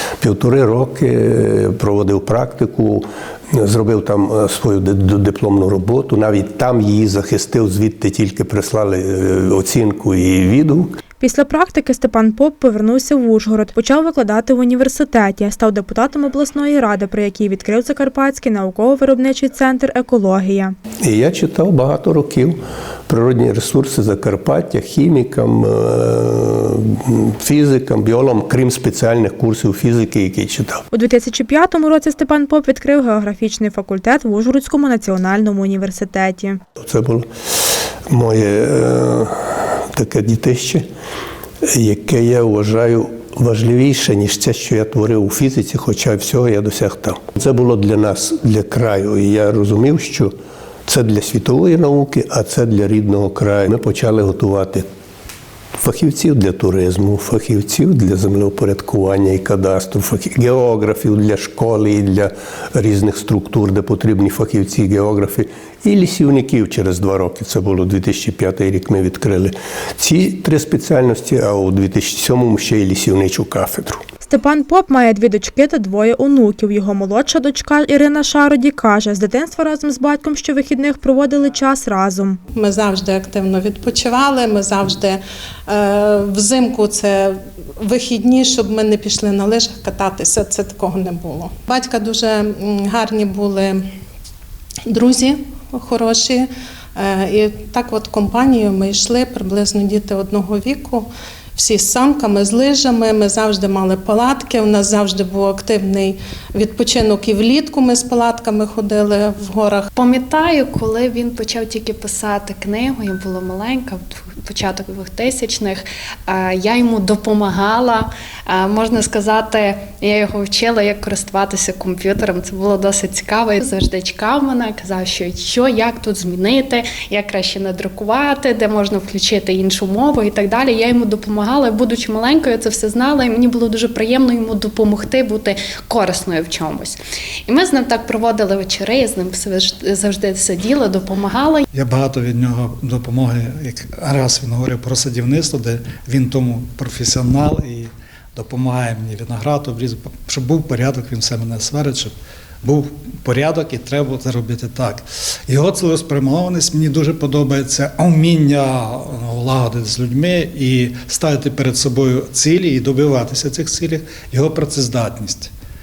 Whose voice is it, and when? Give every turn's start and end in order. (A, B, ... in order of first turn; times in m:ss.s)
0:00.2-0:11.0 A
0:11.2-0:20.7 B
0:21.0-0:30.8 A
0:30.9-0:36.6 B
0:36.8-0:37.3 A
0:38.1-0:40.8 A
0:41.6-0:50.3 A
0:50.8-0:54.8 A
0:55.8-1:14.0 A
1:14.2-1:22.4 B
1:22.5-1:33.8 C
1:34.8-1:49.9 C
1:50.0-2:21.6 D
2:21.8-2:45.5 E